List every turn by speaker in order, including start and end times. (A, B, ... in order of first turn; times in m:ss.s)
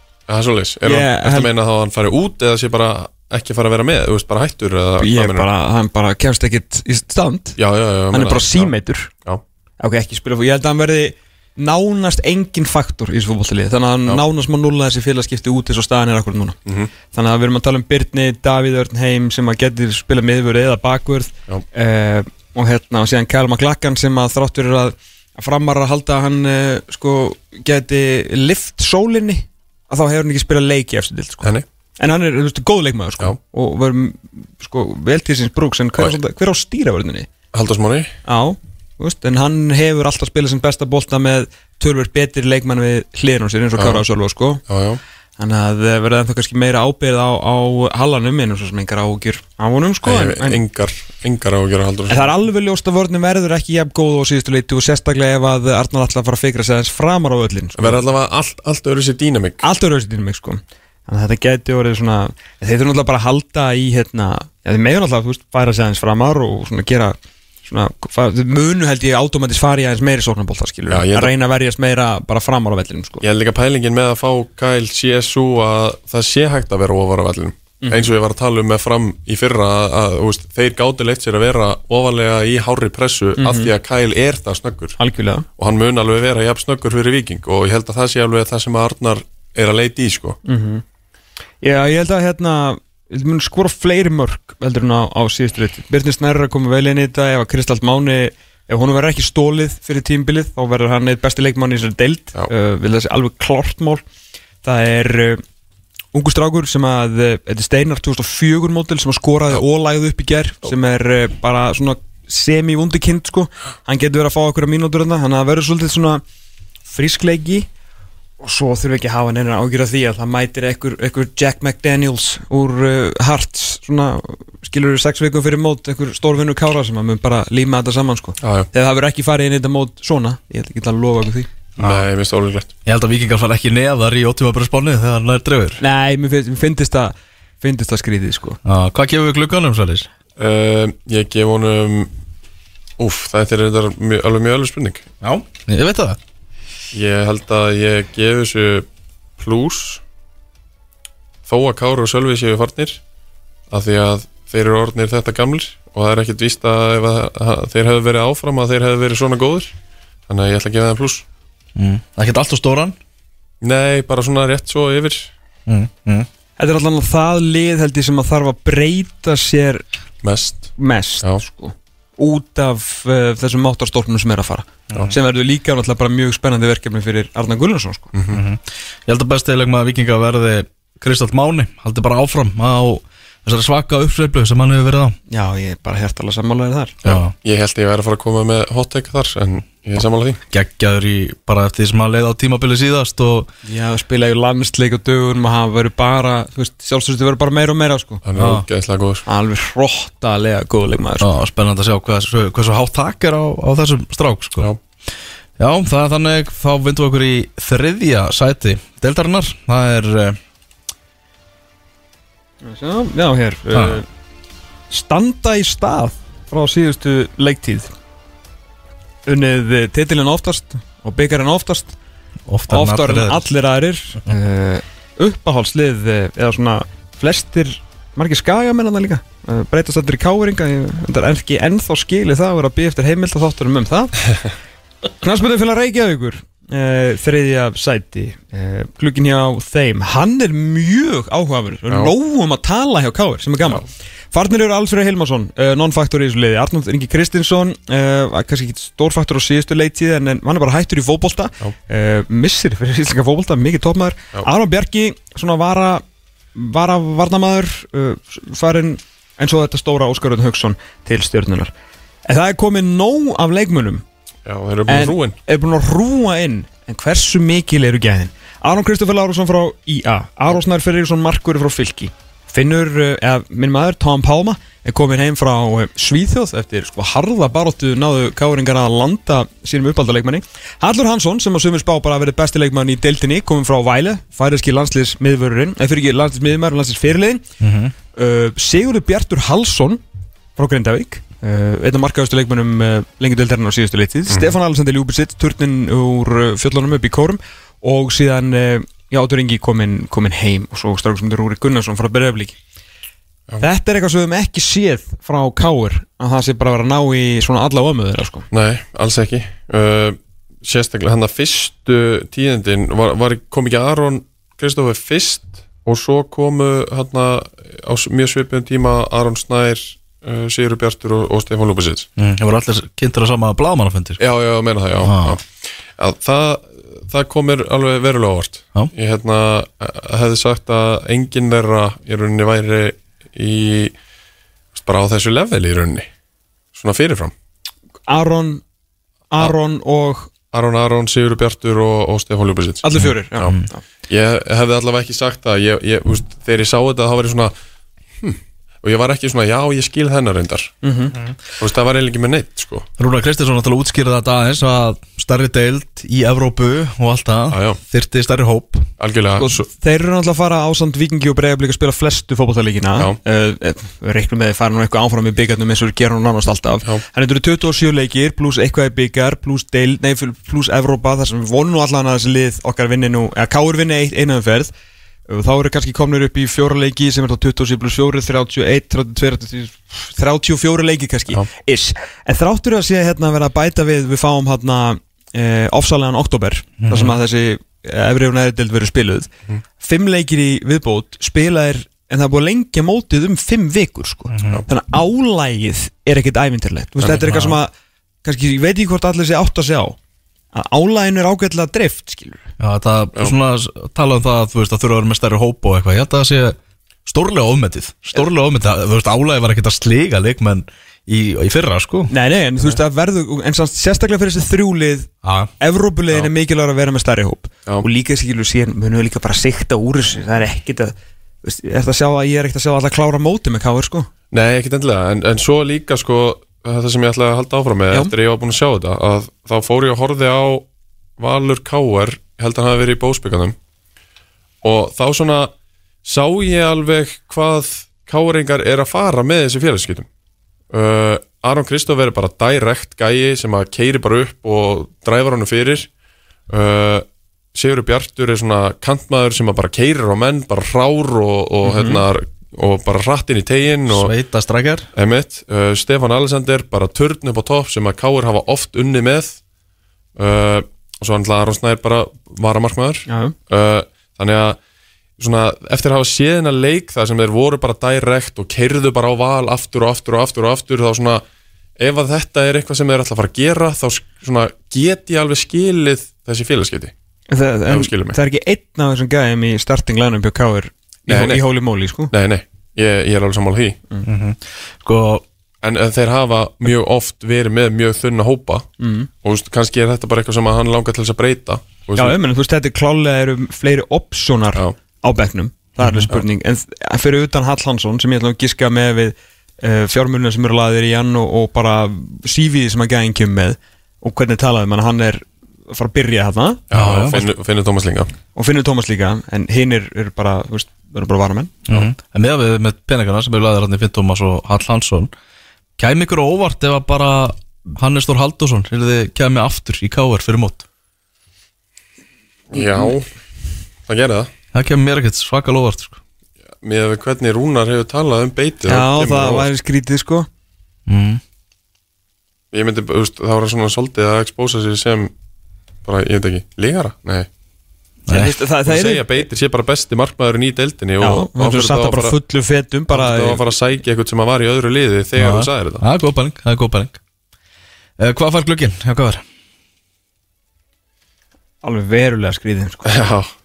0:00.3-0:05.5 A
0:00.8-0:01.5 B
0:05.0-0:07.6 B
0:07.6-0:08.7 A
0:08.1-0:09.1 B
0:09.8-0:16.6 B
0:16.6-0:16.9 A
0:17.1-0:37.3 B
0:37.5-0:38.1 A
0:38.2-0:44.6 B
0:43.8-0:44.0 A
0:44.7-0:45.0 A
0:45.4-0:50.6 B
0:50.0-0:52.3 A
0:52.1-0:58.0 B
0:57.8-0:59.6 A
0:59.6-1:13.2 B
1:10.9-1:11.3 A
1:13.2-1:25.0 A
1:17.8-1:18.1 B
1:23.4-1:23.7 B
1:25.0-1:25.4 B
1:25.6-1:30.4 A
1:30.4-1:30.8 B
1:31.6-1:44.0 B
1:44.6-1:45.4 B
1:46.1-1:56.2 B
1:56.9-1:57.7 B
1:58.4-2:11.5 B
2:08.4-2:08.7 A
2:11.8-2:12.1 C
2:11.8-2:12.7 A
2:12.8-2:15.8 C
2:15.8-2:18.6 B
2:18.6-2:20.1 C
2:20.4-2:22.1 A
2:23.0-2:25.0 A
2:25.2-2:26.2 C
2:26.9-2:30.0 A
2:31.4-2:33.0 A
2:33.7-2:39.8 A
2:40.3-2:41.2 A
2:41.8-2:43.0 C
2:43.6-2:45.3 A
2:45.7-2:46.3 C
2:46.6-2:49.8 B
2:50.2-2:51.4 A
2:50.8-2:58.1 B
2:58.1-2:58.4 A
2:58.3-3:05.2 C
3:05.3-3:07.0 B
3:07.0-3:07.3 C
3:07.0-3:10.4 A
3:10.5-3:13.5 C
3:13.6-3:18.2 B
3:18.2-3:19.2 A
3:18.4-3:18.6 C
3:19.2-3:21.3 B
3:21.2-3:24.7 C
3:25.6-3:30.4 C
3:32.6-3:34.0 B
3:33.7-3:34.0 C
3:34.9-3:37.9 B
3:39.2-3:42.0 B
3:42.5-3:43.5 C
3:42.7-3:54.3 B
3:55.2-4:16.0 B
4:16.5-4:21.7 B
4:22.2-4:24.0 B
4:24.4-4:25.4 A
4:24.9-4:47.4 B
4:47.6-4:47.9 C
4:48.1-4:50.0 B
4:50.6-5:02.6 B
4:54.3-4:54.5 A
5:03.6-5:08.5 B
5:08.5-5:22.1 A
5:22.2-5:24.2 C
5:24.2-5:34.0 A
5:25.0-5:25.4 C
5:34.7-5:36.1 A
5:36.7-5:37.3 A
5:38.1-5:38.6 B
5:39.3-5:40.3 B
5:40.5-5:42.8 A
5:42.8-5:43.8 B
5:43.0-5:43.7 C
5:44.1-5:47.5 A
5:48.2-5:50.7 A
5:50.8-5:51.1 B
5:51.6-5:52.8 A
5:53.0-5:58.9 C
5:57.5-5:57.8 A
5:59.0-5:59.6 A
5:59.4-6:14.7 B
6:15.3-6:29.3 B
6:26.8-6:27.2 C
6:29.8-6:37.7 B
6:34.3-6:34.6 C
6:37.2-6:37.6 C
6:38.2-6:40.0 B
6:40.5-6:42.5 B
6:42.6-6:52.1 C
6:52.1-7:04.1 B
6:55.2-6:55.5 C
7:04.3-7:13.6 A
7:14.6-7:15.5 A
7:16.0-7:20.1 A
7:20.7-7:25.9 A
7:26.5-7:34.1 A
7:31.6-7:32.0 B
7:33.9-7:34.9 C
7:34.9-7:39.4 A
7:40.2-7:44.6 A
7:43.1-7:43.3 B
7:45.2-7:51.2 A
7:51.8-7:56.9 A
7:57.3-8:02.1 B
7:57.7-7:58.2 A
8:01.1-8:01.4 A
8:02.1-8:03.8 A
8:04.0-8:05.2 C
8:05.6-8:08.6 A
8:08.8-8:09.1 B
8:09.2-8:12.2 A
8:12.0-8:27.3 B
8:15.8-8:16.1 C
8:26.7-8:28.1 A
8:26.7-8:27.2 C
8:28.3-8:31.6 B
8:31.7-8:35.1 C
8:35.8-8:40.6 C
8:42.5-8:43.1 A
8:42.6-8:42.9 B
8:43.9-8:44.3 A
8:44.5-8:46.0 C
8:46.6-8:49.5 A
8:48.6-8:50.3 B
8:50.9-8:51.2 C
8:52.5-8:55.1 A
8:55.8-8:57.3 A
8:58.1-8:58.3 C
8:58.1-8:59.3 B
8:58.6-9:02.2 A
9:01.0-9:03.5 B
9:02.9-9:05.8 A
9:05.2-9:07.0 C
9:08.0-9:09.2 C
9:11.6-9:12.9 B
9:12.8-9:13.3 A